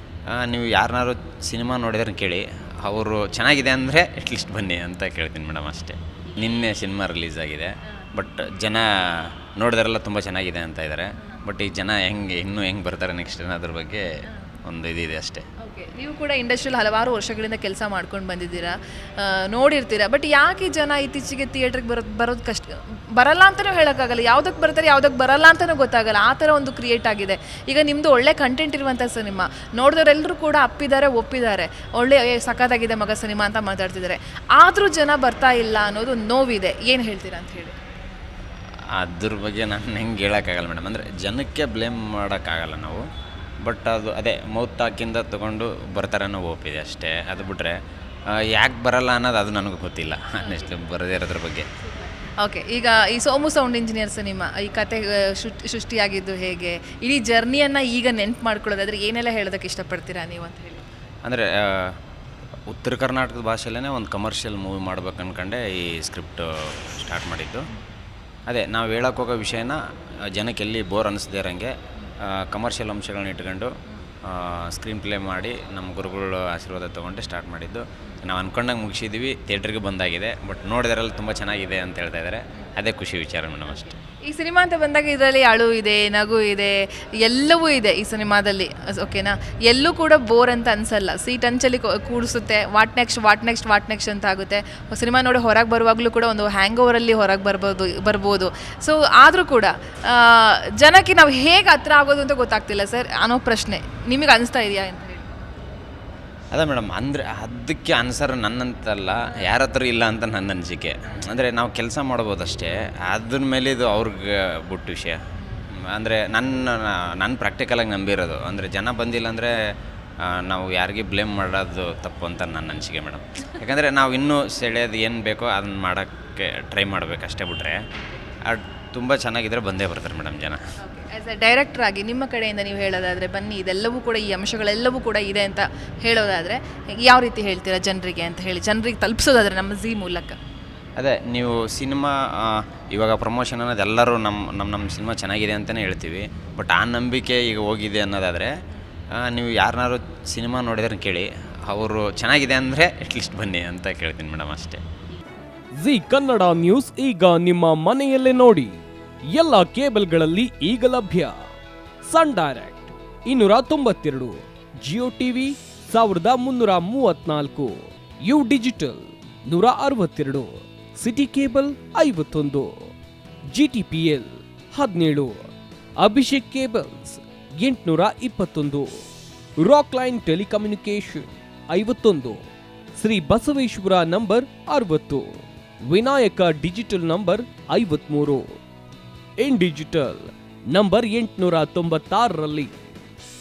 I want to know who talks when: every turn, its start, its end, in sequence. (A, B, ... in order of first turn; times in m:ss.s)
0:00.3-0:14.1 A
0:14.7-0:15.4 A
0:15.6-0:37.8 B
0:39.0-0:43.0 A
0:43.6-0:47.8 A
0:48.4-0:51.7 A
0:50.4-0:50.8 B
0:51.8-1:00.8 B
1:01.2-1:02.0 A
1:02.7-1:07.6 A
1:08.5-1:09.8 A
1:10.3-1:11.7 A
1:12.3-1:13.7 A
1:13.9-1:14.1 B
1:14.2-1:23.9 A
1:23.6-1:45.3 B
1:46.5-1:55.2 A
1:55.4-1:55.7 B
1:55.8-1:59.5 A
2:00.2-2:07.8 A
2:08.0-2:08.3 B
2:08.4-2:10.6 A
2:10.8-2:20.4 B
2:21.0-2:28.5 A
2:29.2-2:34.8 A
2:35.8-2:38.8 C
2:39.3-2:41.4 C
2:42.0-2:52.9 C
2:53.5-2:59.0 C
2:59.6-3:02.4 C
3:03.0-3:08.6 C
3:09.4-3:12.7 C